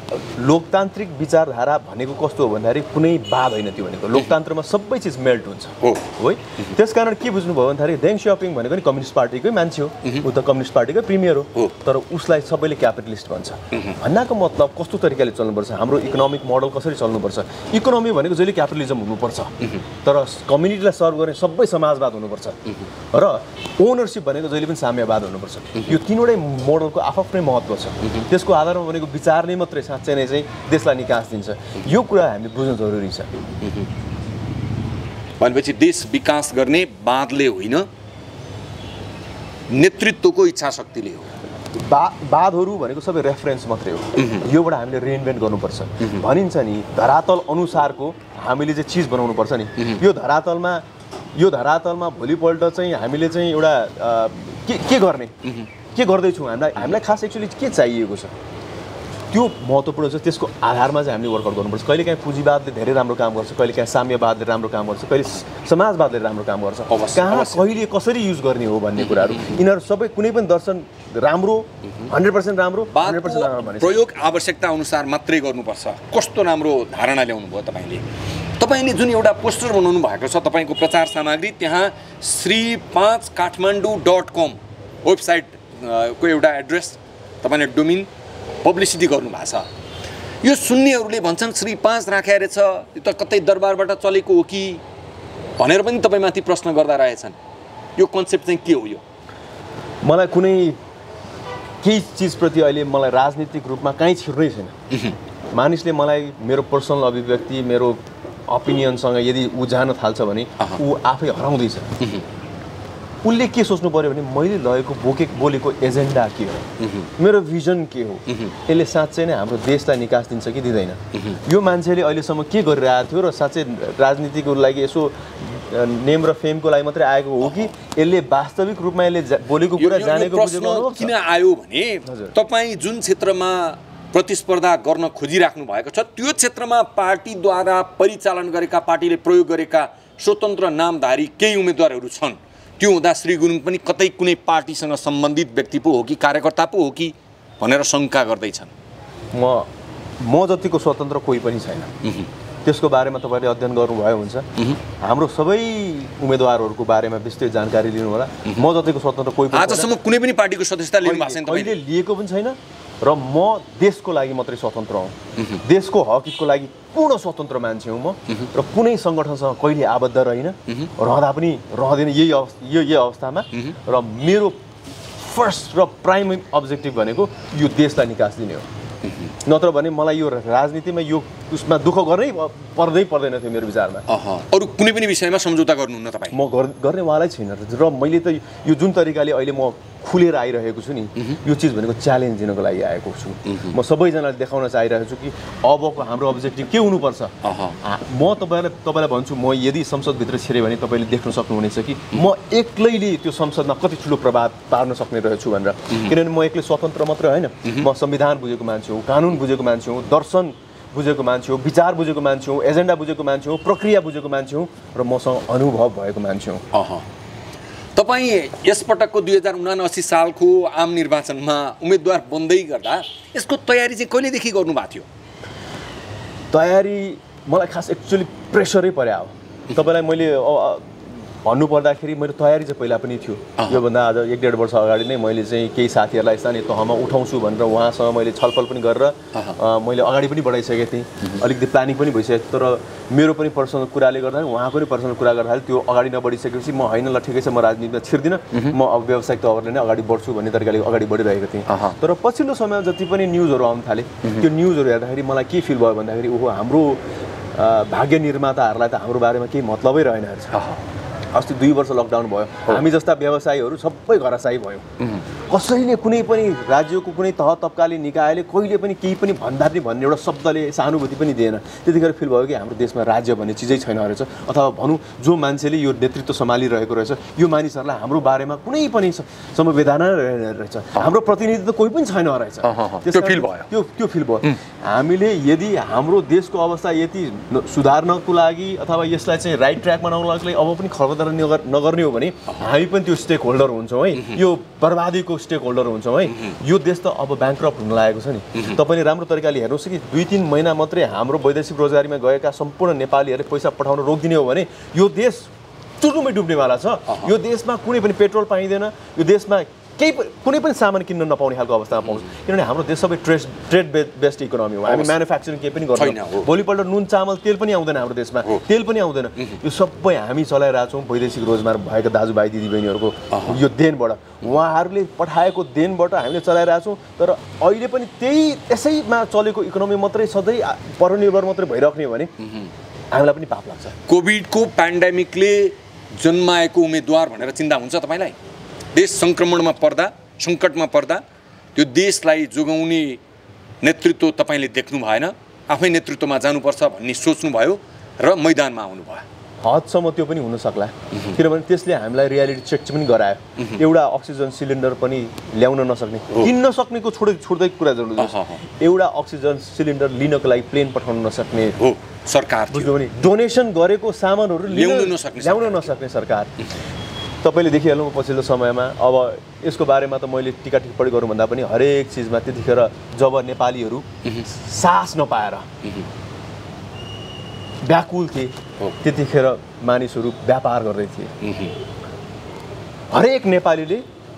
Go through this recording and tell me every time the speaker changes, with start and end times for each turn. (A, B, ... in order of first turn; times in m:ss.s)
0:00.1-0:33.3 A
0:35.4-0:37.9 B
0:39.7-0:41.3 B
0:41.8-0:58.4 A
0:44.2-0:44.5 B
0:59.3-1:14.0 A
1:06.9-1:07.6 B
1:09.0-1:09.6 B
1:12.9-1:18.1 B
1:18.6-1:28.1 B
1:28.6-1:29.7 B
1:30.4-1:34.8 B
1:35.6-1:37.4 B
1:38.0-1:39.0 B
1:40.0-1:40.8 A
1:41.8-1:44.8 A
1:44.9-1:45.2 B
1:45.5-1:51.9 A
1:52.0-1:52.2 B
1:53.2-1:56.7 A
1:56.8-1:57.1 B
1:57.2-2:11.1 A
1:58.3-1:58.5 B
2:09.7-2:28.7 B
2:12.1-2:12.4 A
2:29.3-2:29.7 A
2:30.2-2:31.9 A
2:32.0-2:32.3 B
2:32.6-2:34.5 A
2:35.0-2:39.9 A
2:39.5-2:41.8 B
2:41.0-2:54.6 A
2:45.4-2:45.6 B
2:55.2-2:58.7 A
2:59.4-3:04.1 A
3:04.1-3:06.4 B
3:06.3-3:36.6 A
3:17.4-3:17.8 B
3:36.7-3:37.1 B
3:38.0-3:45.1 B
3:46.5-4:17.0 A
4:11.7-4:12.0 B
4:17.6-4:20.7 A
4:20.5-4:20.8 B
4:21.3-4:24.9 A
4:25.5-5:32.3 A
4:42.6-4:43.7 B
4:54.2-4:54.4 B
5:14.9-5:15.1 B
5:16.0-5:16.5 B
5:23.3-5:23.6 B
5:33.1-5:34.0 A
5:34.1-5:38.4 B
5:38.9-5:41.2 B
5:41.8-5:43.2 B
5:43.8-5:49.2 B
5:49.6-6:01.8 A
5:51.1-5:51.4 B
5:58.2-5:58.6 B
6:01.8-6:02.9 B
6:02.7-6:06.5 A
6:04.7-6:05.9 B
6:07.4-6:15.7 A
6:17.8-6:21.4 A
6:21.4-6:21.8 B
6:23.1-6:24.0 A